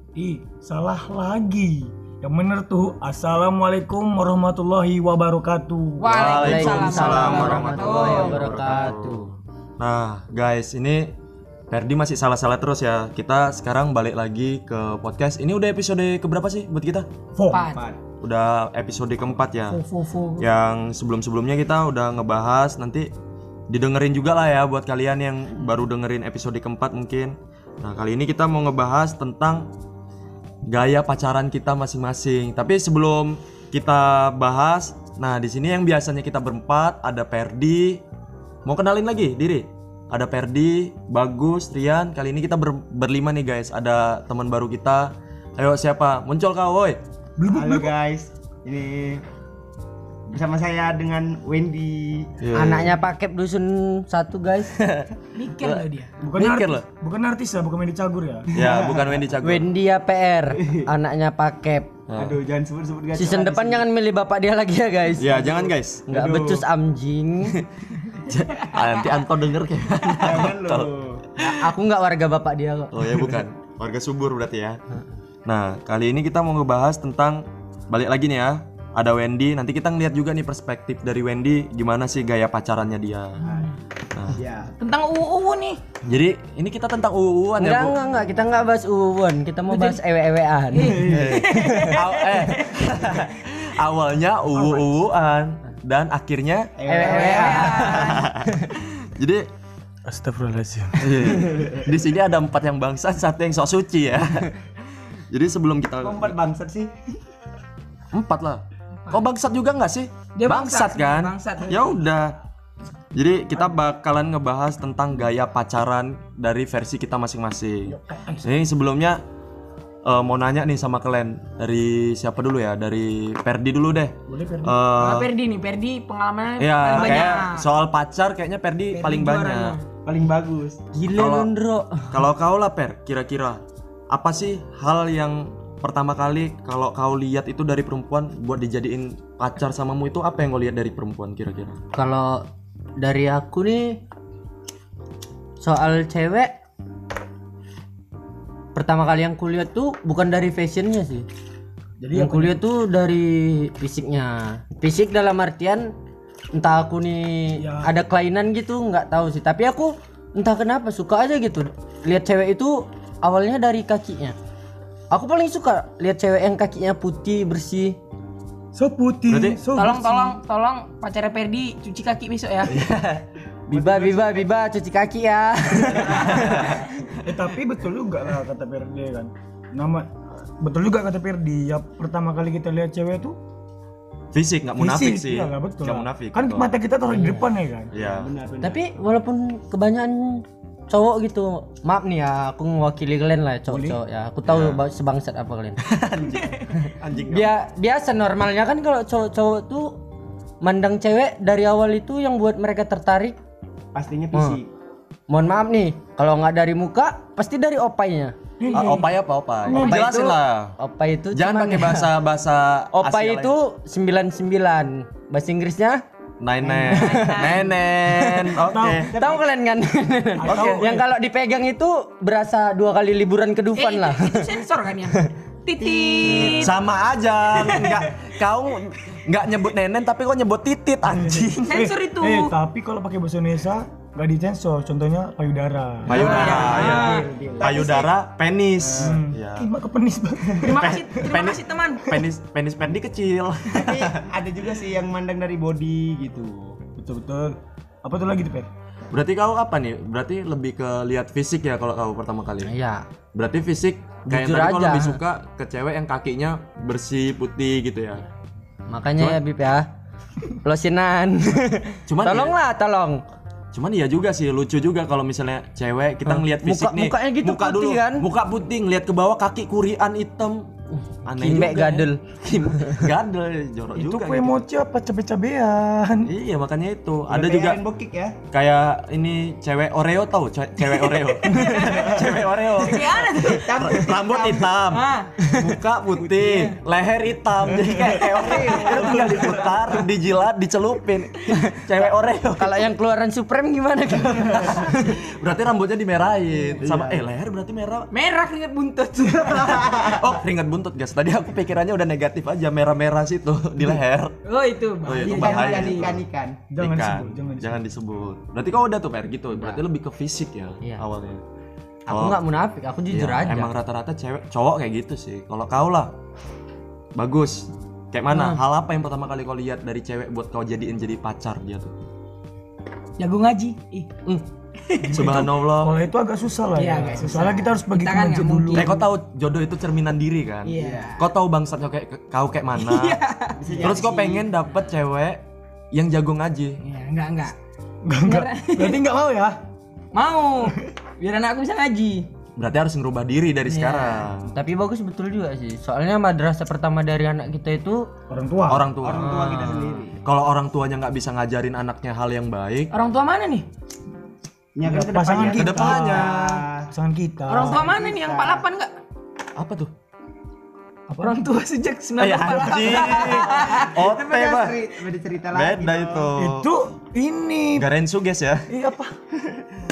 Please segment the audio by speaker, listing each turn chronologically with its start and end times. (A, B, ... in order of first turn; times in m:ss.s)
0:00.2-0:06.3 A
0:06.0-0:08.5 B
0:06.1-0:11.1 C
0:06.3-0:09.3 D
0:08.6-0:08.9 E
0:11.7-0:17.1 C
0:17.4-0:17.6 A
0:17.5-0:17.9 B
0:17.5-0:18.0 E
0:18.2-0:19.8 C
0:19.7-0:20.5 B
0:20.4-0:23.1 C
0:23.7-0:29.7 C
0:30.7-0:38.0 C
0:38.7-0:47.0 C
0:47.4-0:47.9 A
0:47.5-0:49.2 E
0:50.3-0:52.4 E
0:52.4-0:53.0 C
0:52.5-0:54.8 D
0:54.7-0:56.8 C
0:55.4-0:56.1 B
0:56.2-0:58.6 A
0:58.5-0:59.7 C
0:58.6-0:59.2 E
0:59.4-1:01.9 D
1:00.6-1:00.9 E
1:02.1-1:02.4 C
1:02.2-1:03.9 E
1:03.1-1:07.6 D
1:05.2-1:06.6 C
1:05.4-1:06.5 E
1:07.5-1:11.7 C
1:10.2-1:11.3 E
1:11.4-1:13.4 D
1:12.9-1:14.8 C
1:15.4-1:23.4 C
1:23.4-1:23.8 B
1:23.4-1:23.8 E
1:24.1-1:24.4 C
1:24.3-1:24.7 E
1:24.8-1:25.8 B
1:26.0-1:28.0 C
1:27.6-1:31.1 D
1:29.7-1:30.0 B
1:30.7-1:33.0 B
1:31.0-1:36.7 C
1:36.8-1:38.2 E
1:36.8-1:38.3 D
1:37.0-1:38.3 B
1:37.7-1:39.5 C
1:40.0-1:41.7 A
1:41.0-1:46.4 C
1:41.5-1:41.8 E
1:46.0-1:46.9 E
1:48.1-1:52.4 C
1:49.0-1:49.2 B
1:50.4-1:51.9 B
1:53.1-1:59.2 C
1:57.9-1:58.5 A
2:00.0-2:05.3 C
2:04.3-2:04.8 A
2:05.0-2:07.7 B
2:06.6-2:09.8 C
2:07.0-2:07.3 E
2:08.9-2:09.8 B
2:10.0-2:10.8 E
2:10.9-2:12.2 D
2:11.1-2:11.5 C
2:12.1-2:21.8 C
2:21.9-2:22.5 D
2:23.0-2:24.0 D
2:25.6-2:26.6 D
2:28.8-2:31.3 D
2:32.0-2:32.6 A
2:32.2-2:35.9 D
2:36.5-2:44.4 D
2:37.6-2:37.9 A
2:45.1-2:48.0 D
2:48.7-2:50.4 A
2:49.3-2:49.6 C
2:49.7-2:52.8 B
2:52.7-2:53.2 C
2:53.7-2:56.6 D
2:53.7-2:54.4 E
2:56.1-2:56.9 C
2:56.2-3:03.4 A
3:04.3-3:06.7 C
3:04.8-3:07.9 A
3:07.1-3:07.4 D
3:07.9-3:08.3 C
3:08.0-3:08.9 E
3:08.6-3:15.8 D
3:13.7-3:14.0 A
3:14.4-3:14.8 C
3:15.8-3:17.5 C
3:17.3-3:20.0 D
3:20.6-3:23.4 D
3:23.9-3:24.7 E
3:24.3-3:24.6 D
3:25.3-3:28.4 D
3:28.6-3:29.1 A
3:28.7-3:30.8 C
3:29.7-3:30.0 A
3:29.7-3:32.1 D
3:31.3-3:33.6 C
3:33.0-3:36.0 D
3:36.4-3:39.1 C
3:36.7-3:38.6 D
3:36.7-3:37.0 E
3:37.0-3:37.6 B
3:38.7-3:39.1 A
3:39.0-3:39.5 E
3:39.2-3:44.5 D
3:40.4-3:41.0 A
3:40.5-3:40.9 C
3:43.8-3:46.8 B
3:45.8-3:46.9 E
3:46.2-3:51.8 C
3:47.5-3:48.2 B
3:51.1-3:57.7 A
3:51.7-3:52.6 B
3:56.1-3:59.7 C
3:56.1-3:57.7 B
3:56.1-3:58.2 E
3:58.8-3:59.2 E
3:59.0-4:01.0 A
4:00.6-4:02.1 B
4:00.8-4:04.3 C
4:03.7-4:06.8 E
4:07.0-4:08.7 A
4:09.1-4:12.7 C
4:12.6-4:13.0 D
4:13.4-4:18.2 C
4:14.3-4:15.2 D
4:18.9-4:19.9 D
4:20.5-4:23.2 D
4:22.1-4:22.6 C
4:23.7-4:30.7 C
4:26.2-4:28.3 D
4:31.3-4:34.6 C
4:31.4-4:33.1 D
4:34.0-4:36.3 A
4:36.2-4:37.8 C
4:37.3-4:38.4 E
4:38.5-4:52.8 C
4:41.4-4:42.1 B
4:41.6-4:42.3 E
4:42.8-4:43.9 B
4:43.4-4:44.7 E
4:44.9-4:45.4 B
4:46.3-4:46.8 B
4:48.1-4:50.0 E
4:51.5-4:51.9 D
4:52.6-4:54.9 D
4:54.3-4:58.1 C
4:56.7-4:57.3 E
4:58.1-5:00.0 B
4:59.4-5:00.3 E
5:00.1-5:04.4 C
5:04.4-5:06.1 B
5:05.0-5:06.2 C
5:05.2-5:06.6 E
5:06.7-5:07.8 A
5:06.8-5:11.4 C
5:09.5-5:09.8 D
5:12.1-5:13.7 D
5:12.1-5:12.4 C
5:13.1-5:16.1 C
5:17.2-5:21.9 C
5:18.3-5:18.6 D
5:23.2-5:24.2 B
5:24.9-5:25.4 B
5:25.0-5:29.0 A
5:25.1-5:26.0 C
5:26.8-5:29.0 B
5:27.1-5:27.6 E
5:28.7-5:33.2 C
5:30.6-5:31.2 B
5:30.7-5:31.2 E
5:32.8-5:33.6 B
5:33.6-5:34.5 E
5:33.8-5:36.8 C
5:36.8-5:37.5 B
5:38.0-5:39.6 A
5:38.2-5:39.0 B
5:40.1-5:42.3 B
5:42.6-5:44.5 C
5:43.7-5:44.2 B
5:44.5-5:48.1 D
5:48.3-5:48.9 A
5:48.7-5:49.6 C
5:49.0-5:50.2 E
5:49.1-5:50.0 D
5:50.2-5:52.9 C
5:52.9-5:53.7 B
5:54.8-5:56.9 E
5:54.8-5:57.9 A
5:55.4-5:56.4 C
5:57.5-5:58.9 B
5:57.6-5:58.6 E
5:59.6-5:59.9 C
6:01.1-6:01.5 A
6:01.2-6:03.9 B
6:02.2-6:04.8 C
6:03.6-6:06.3 E
6:05.5-6:06.7 C
6:06.3-6:07.9 A
6:07.8-6:08.7 C
6:08.7-6:09.2 A